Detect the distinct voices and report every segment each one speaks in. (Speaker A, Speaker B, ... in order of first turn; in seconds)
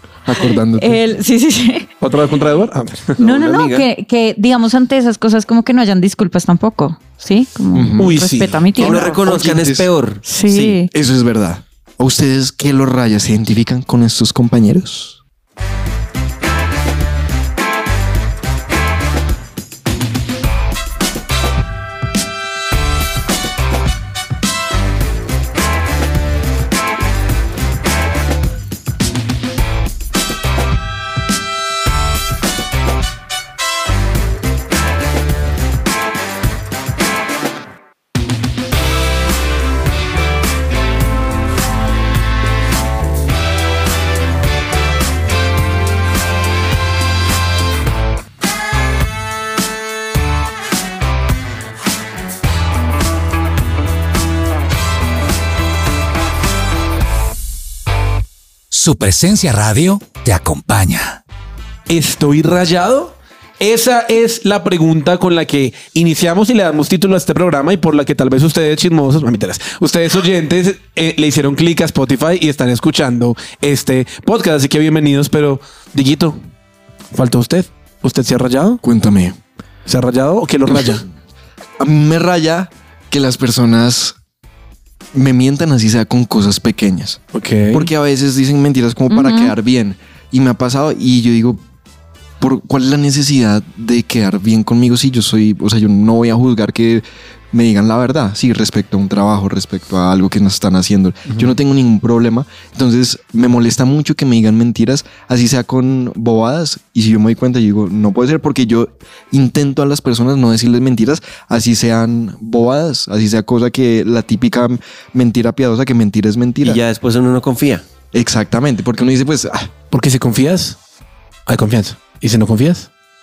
Speaker A: 0.3-1.1, 7.7-8.2, 8.8-9.9, 10.9-15.2, 78.8-79.4, 80.7-81.0, 81.8-84.2, 85.1-87.2, 87.7-91.6, 92.4-116.8, 118.1-119.7
Speaker B: 0.4-1.9, 3.2-9.2, 10.2-10.9, 89.1-89.5
Speaker C: 2.0-3.2, 8.0-8.7, 61.9-76.4, 77.1-78.8, 79.9-81.0, 87.3-87.9, 119.9-120.8, 121.5-122.9
Speaker D: 3.2-3.9, 8.8-10.8, 116.6-117.8
Speaker E: 58.7-61.2